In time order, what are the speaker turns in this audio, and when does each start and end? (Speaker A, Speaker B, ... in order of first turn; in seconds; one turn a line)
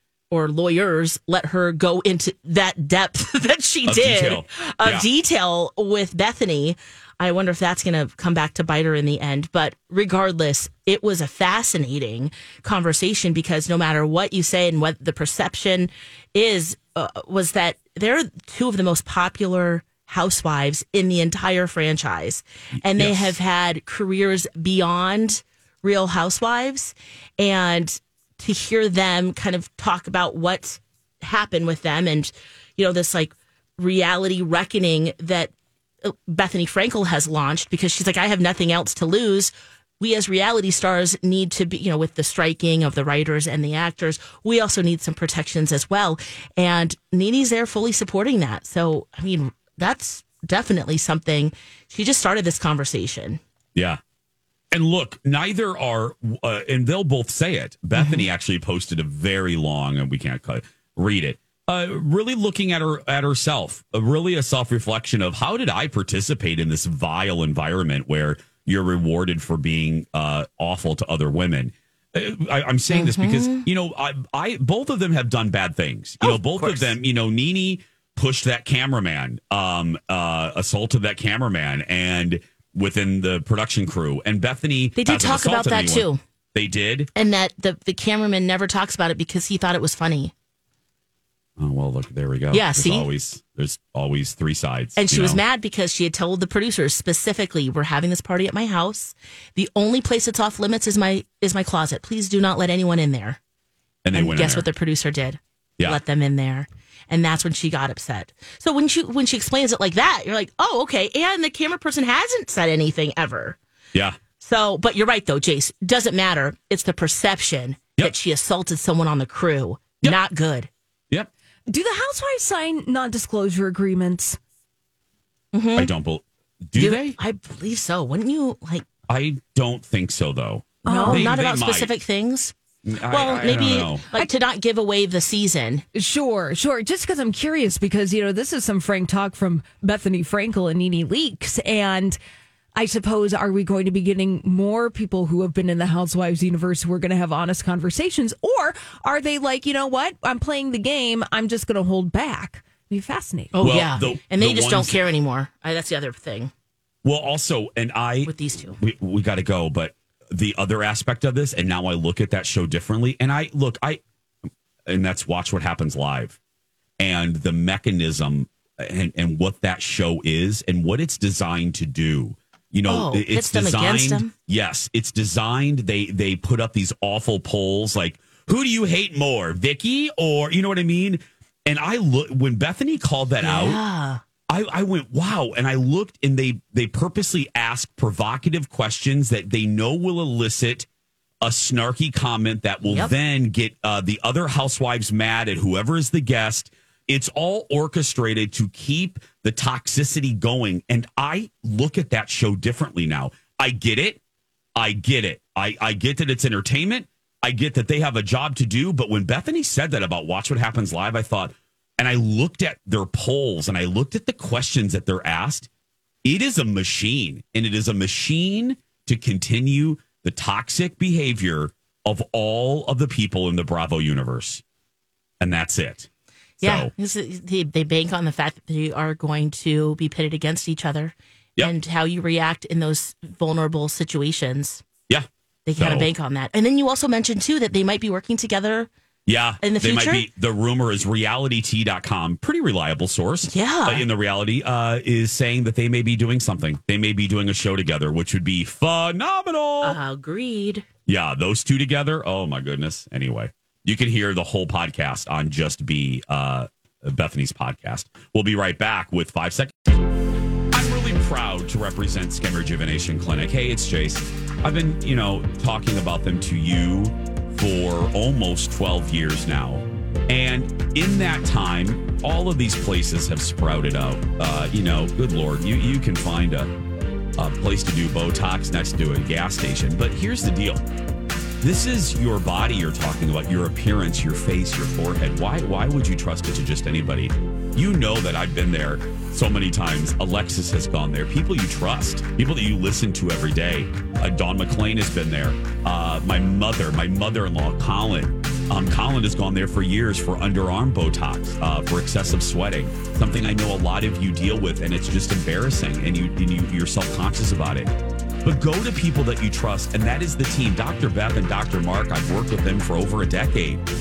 Speaker A: 0.3-35.5
Speaker B: 3.9-5.1
Speaker B: 22.8-23.4
Speaker A: 36.0-53.4
Speaker B: 53.8-54.0
Speaker B: 54.7-87.1
Speaker A: 58.0-58.2
Speaker A: 72.9-73.7
Speaker A: 76.2-77.0
Speaker A: 85.0-86.2
Speaker A: 87.2-90.3
Speaker B: 91.6-95.4
Speaker A: 92.5-93.1
Speaker A: 95.0-103.4
Speaker B: 104.0-104.7
Speaker A: 104.1-113.6
Speaker B: 113.9-114.2
Speaker A: 114.4-120.7
Speaker C: 121.7-124.4
Speaker A: 125.5-125.9
Speaker B: 125.8-127.2
Speaker A: 126.8-128.9
Speaker B: 129.1-131.9
Speaker C: 130.8-131.3
Speaker A: 130.8-132.5
Speaker B: 132.8-134.1
Speaker A: 133.1-135.8
Speaker C: 135.9-142.2
Speaker C: 142.8-153.6
Speaker A: 153.6-156.5
Speaker B: 153.6-155.0
Speaker B: 157.0-164.0
Speaker A: 158.3-158.8
Speaker B: 164.9-166.4
Speaker B: 167.0-183.8
Speaker A: 172.9-174.3
Speaker A: 183.4-184.2
Speaker B: 184.5-190.9
Speaker B: 191.4-204.2
Speaker A: 192.9-193.1
Speaker B: 204.8-215.7
Speaker B: 216.2-224.6
Speaker B: 225.4-226.1
Speaker B: 226.6-226.9
Speaker A: 226.6-234.8
Speaker B: 235.1-236.1
Speaker A: 235.7-238.9
Speaker B: 239.3-250.0
Speaker A: 239.6-240.3
Speaker A: 243.5-244.1
Speaker A: 249.8-250.9
Speaker B: 251.1-260.0
Speaker B: 260.7-276.7
Speaker B: 277.4-280.8
Speaker B: 281.6-313.8